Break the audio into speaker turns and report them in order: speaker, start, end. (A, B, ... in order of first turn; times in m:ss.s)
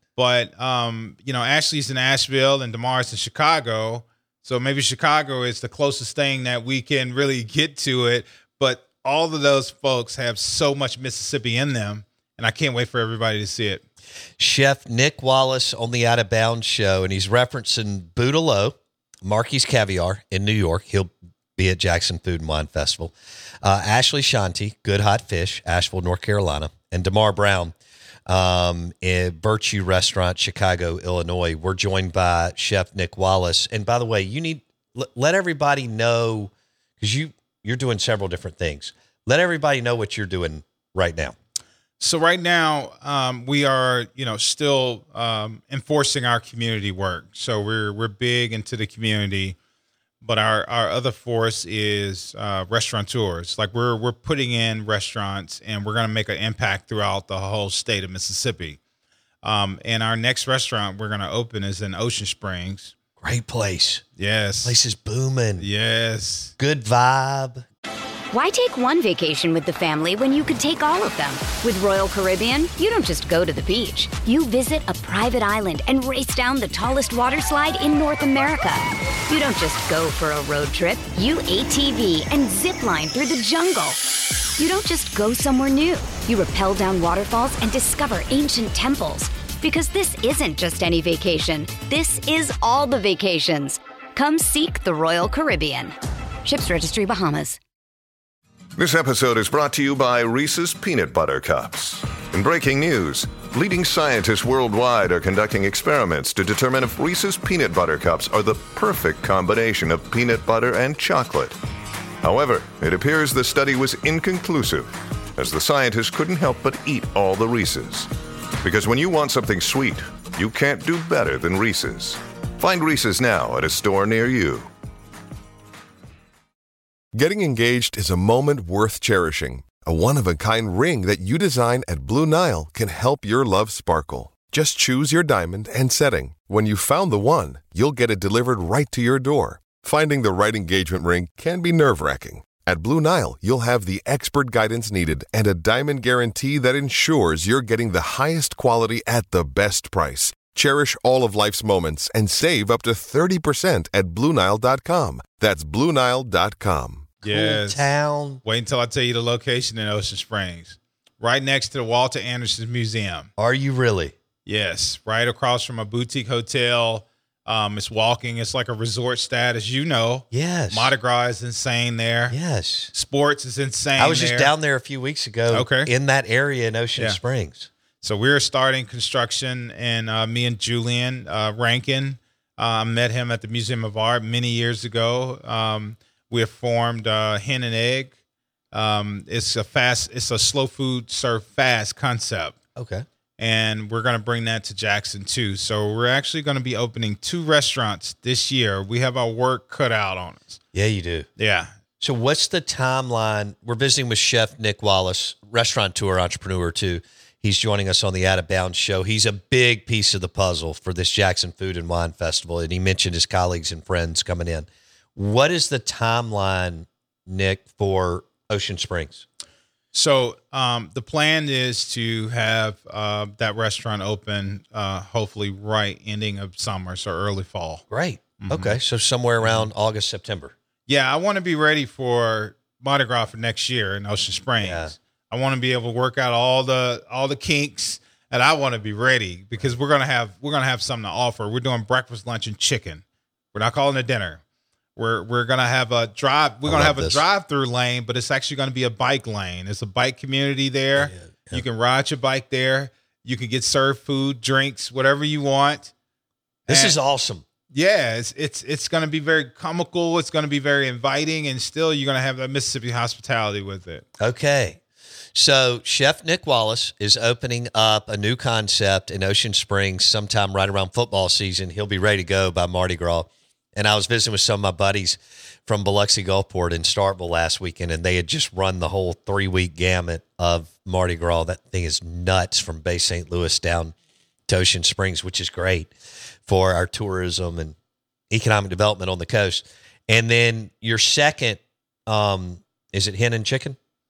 0:00.2-0:13.8 A
0:14.4-0:27.7 B
0:28.3-0:41.3 B
0:42.0-0:49.6 A
0:50.2-0:58.8 A
0:59.4-1:02.9 A
1:03.2-1:04.0 B
1:04.2-1:04.8 A
1:04.6-1:05.7 B
1:05.6-1:06.5 A
1:06.6-1:07.6 B
1:08.3-1:24.0 C
1:24.6-1:37.6 C
1:38.8-1:51.5 D
1:52.2-1:58.1 D
1:58.6-2:04.7 D
2:07.1-2:37.1 E
2:37.2-2:37.9 A
2:37.2-2:38.4 B
2:38.4-2:43.3 A
2:43.4-2:44.1 B
2:44.4-2:52.4 A
2:50.3-2:50.9 B
2:52.3-2:52.9 B
2:52.9-2:54.5 A
2:54.0-2:57.7 B
2:55.5-2:55.9 A
2:58.0-3:08.1 A
3:08.7-3:12.6 A
3:12.8-3:13.0 B
3:13.4-3:20.6 A
3:20.7-3:21.3 B
3:21.4-3:21.7 A
3:22.0-3:39.2 B
3:39.9-3:47.8 A
3:47.9-3:50.5 B
3:48.4-3:48.8 A
3:49.4-3:49.7 A
3:50.9-4:04.4 A
3:54.6-3:54.9 B
4:05.0-4:15.9 A
4:06.6-4:07.2 B
4:11.0-4:11.6 B
4:16.7-4:17.4 B
4:16.7-4:17.0 A
4:17.7-4:24.0 A
4:24.2-4:24.8 B
4:25.3-4:43.9 B
4:44.5-4:45.9 B
4:46.5-4:47.7 B
4:48.3-4:53.8 B